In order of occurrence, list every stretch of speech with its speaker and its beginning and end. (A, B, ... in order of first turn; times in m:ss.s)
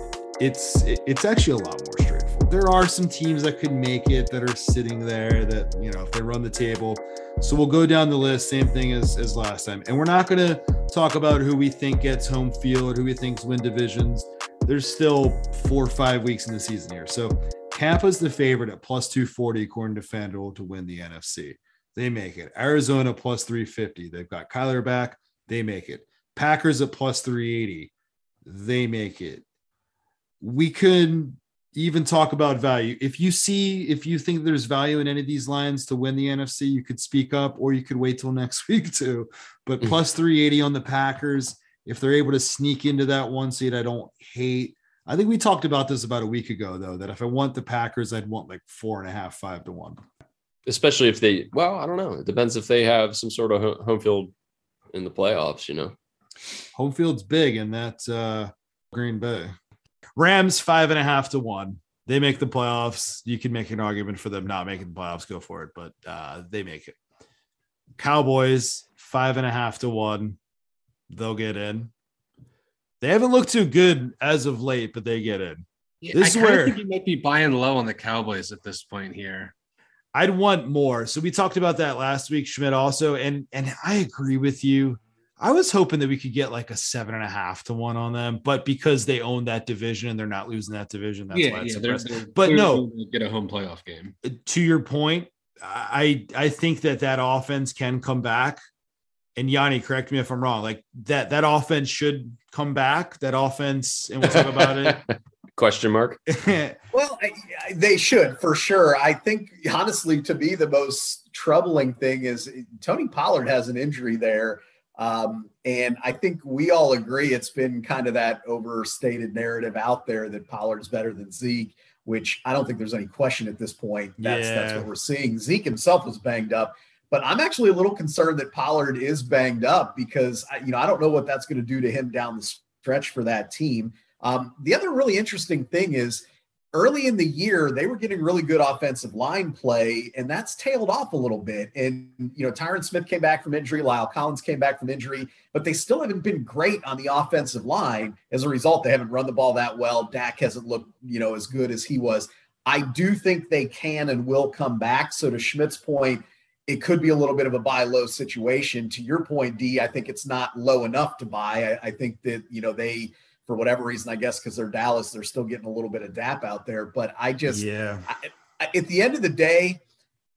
0:00.4-0:27.9 A
0:28.4-0:29.4 A
0:30.4-0:50.0 A
0:50.6-0:54.3 B
0:54.9-0:55.9 B
0:56.7-0:59.5 A
1:00.2-1:06.9 A
1:08.0-1:10.4 A
1:11.1-1:11.9 A
1:13.0-1:16.8 A
1:16.0-1:19.5 C
1:20.1-1:32.8 A
1:31.3-1:34.1 C
1:34.2-1:38.6 A
1:39.4-1:45.0 A
1:45.6-1:46.2 B
1:46.3-1:46.8 A
1:46.9-2:49.8 D
2:04.2-2:04.9 A
2:47.5-2:48.1 A